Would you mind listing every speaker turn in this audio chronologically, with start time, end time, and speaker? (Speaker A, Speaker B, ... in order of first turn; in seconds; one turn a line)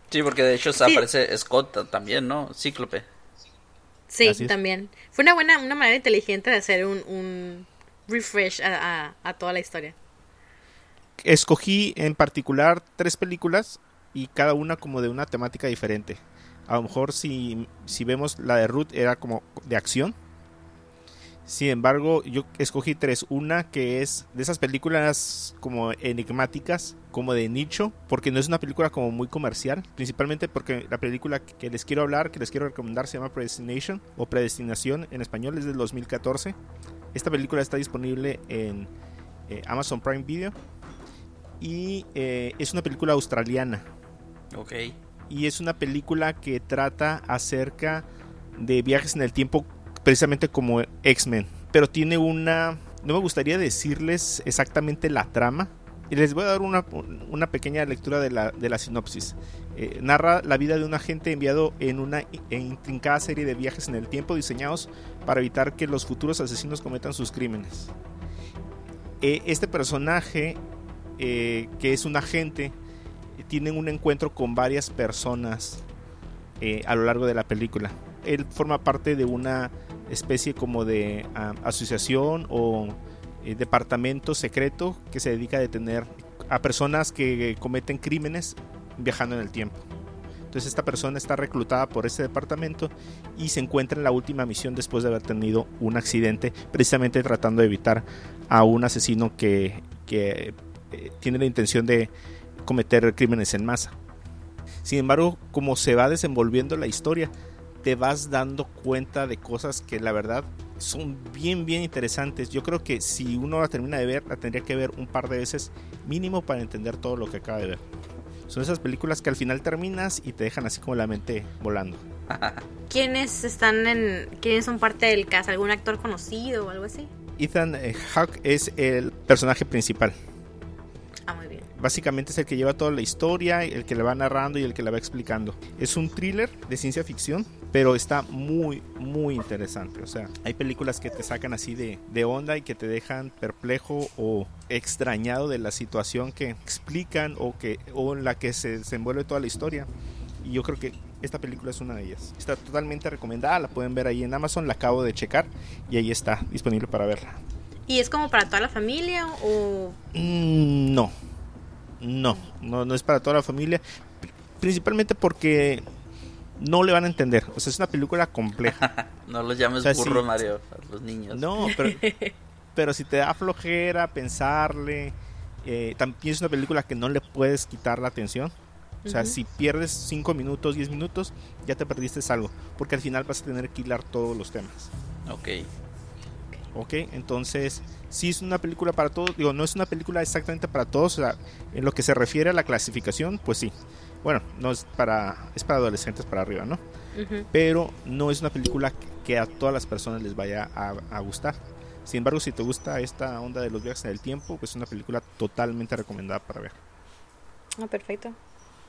Speaker A: 0.1-3.0
Speaker B: 4.1-9.9
Speaker C: 4.2-4.5
Speaker C: 11.2-20.1
Speaker C: 21.4-36.5
Speaker C: 37.1-38.9
Speaker C: 39.5-40.5
Speaker C: 41.6-43.9
Speaker A: 44.5-45.0
Speaker C: 45.3-48.0
Speaker C: 48.6-67.9
Speaker C: 69.2-70.6
Speaker C: 71.2-72.8
Speaker C: 73.4-75.8
Speaker C: 76.6-89.8
Speaker C: 90.5-102.1
Speaker C: 102.6-104.0
Speaker C: 104.8-107.3
Speaker C: 107.8-117.8
Speaker C: 118.5-122.0
Speaker A: 122.3-122.6
Speaker B: 122.9-127.1
Speaker C: 127.4-130.1
Speaker B: 131.3-131.7
Speaker C: 131.7-149.9
Speaker C: 150.4-157.4
Speaker B: 157.9-160.0
Speaker C: 160.1-161.1
Speaker C: 162.0-165.8
Speaker C: 166.6-168.8
Speaker A: 168.6-171.4
Speaker C: 169.8-170.2
Speaker C: 171.3-172.0
Speaker B: 171.6-172.3
Speaker C: 172.7-178.5
Speaker B: 179.0-179.4
Speaker C: 179.1-184.9
Speaker A: 185.2-185.7
Speaker C: 186.7-196.8
Speaker B: 197.1-197.5
Speaker C: 197.5-206.8
Speaker B: 207.8-208.3